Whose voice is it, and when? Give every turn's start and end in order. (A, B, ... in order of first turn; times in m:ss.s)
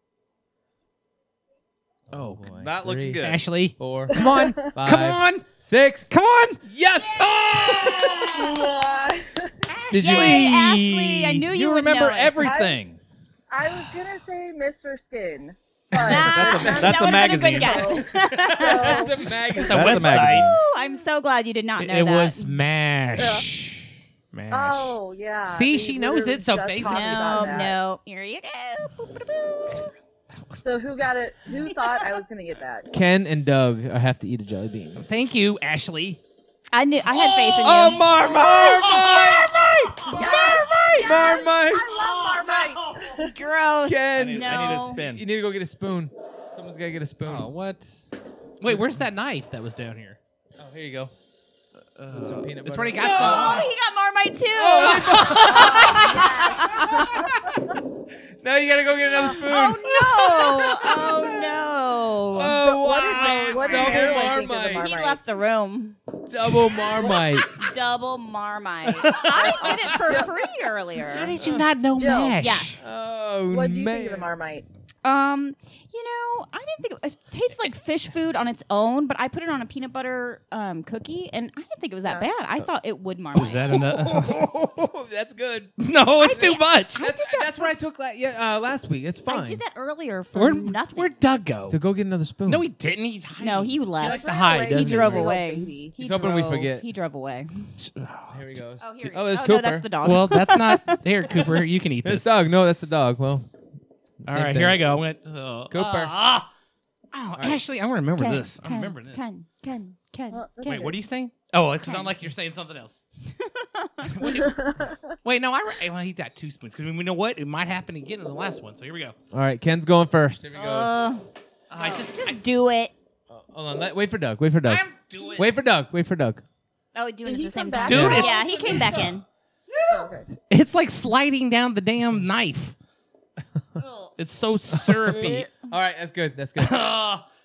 0:02.1-0:06.1 A
0:02.1-0:02.5 B
0:02.6-0:03.5 C
0:03.2-0:05.5 B
0:04.1-0:04.7 D
0:06.1-0:08.5 B
0:06.7-0:08.3 A
0:08.2-0:09.6 D
0:09.7-0:12.5 E
0:09.9-0:10.5 A
0:10.0-0:13.0 C
0:12.4-0:12.8 D
0:13.5-0:20.0 D
0:15.9-0:17.0 A
0:16.0-0:19.3 E
0:16.1-0:18.0 C
0:18.6-0:20.3 A
0:19.6-0:20.6 B
0:19.7-0:20.6 C
0:20.3-0:22.6 E
0:21.8-0:27.5 B
0:23.2-0:23.5 D
0:24.5-0:27.8 D
0:26.8-0:30.0 E
0:30.6-0:32.9 D
0:31.6-0:32.2 E
0:32.9-0:35.0 A
0:35.0-0:36.2 B
0:36.7-0:38.2 E
0:37.3-0:37.8 B
0:37.6-0:39.4 C
0:38.7-0:41.2 B
0:40.1-0:43.3 D
0:41.0-0:42.0 A
0:41.7-0:43.1 B
0:43.2-0:45.0 E
0:43.8-0:47.5 A
0:44.1-0:45.2 C
0:47.2-0:48.0 C
0:48.6-0:50.2 B
0:50.6-0:51.1 A
0:52.0-0:53.7 B
0:52.2-0:53.6 A
0:53.0-0:57.0 E
0:54.6-0:57.4 A
0:55.1-0:56.1 B
0:55.5-0:57.5 D
0:58.4-1:01.1 A
0:59.2-1:06.0 E
1:02.3-1:04.9 A
1:02.4-1:05.2 D
1:06.3-1:07.5 A
1:07.5-1:11.5 E
1:08.9-1:10.1 B
1:09.6-1:09.9 A
1:09.9-1:10.3 D
1:11.0-1:12.8 B
1:11.9-1:12.4 D
1:12.4-1:12.8 E
1:12.8-1:14.3 A
1:13.5-1:14.7 D
1:15.0-1:23.8 E
1:23.3-1:24.7 B
1:23.7-1:25.8 A
1:25.8-1:27.0 B
1:26.2-1:27.7 E
1:26.4-1:29.6 A
1:29.3-1:31.2 E
1:30.3-1:31.8 B
1:31.7-1:32.7 A
1:32.4-1:35.4 B
1:33.4-1:37.7 E
1:34.0-1:35.9 D
1:36.0-1:36.8 A
1:37.8-1:38.4 B
1:38.3-1:39.9 A
1:38.8-1:41.6 E
1:40.0-1:42.3 B
1:42.0-1:43.6 A
1:44.2-1:45.0 A
1:44.3-1:46.5 B
1:45.7-1:46.2 A
1:47.1-1:49.3 B
1:48.2-1:50.9 E
1:50.3-1:51.0 D
1:50.6-1:53.0 B
1:51.8-1:52.2 E
1:53.4-1:54.3 E
1:54.1-1:54.6 B
1:54.3-1:55.2 D
1:55.2-1:59.2 B
1:59.3-2:01.0 A
2:00.5-2:01.3 E
2:01.7-2:02.4 B
2:01.8-2:02.9 E
2:03.3-2:06.4 A
2:04.7-2:05.5 B
2:06.9-2:09.3 E
2:07.2-2:08.3 D
2:07.9-2:09.2 B
2:09.8-2:12.8 B
2:09.9-2:10.3 D
2:13.8-2:14.1 E
2:14.2-2:15.5 B
2:14.8-2:16.9 A
2:16.6-2:17.2 B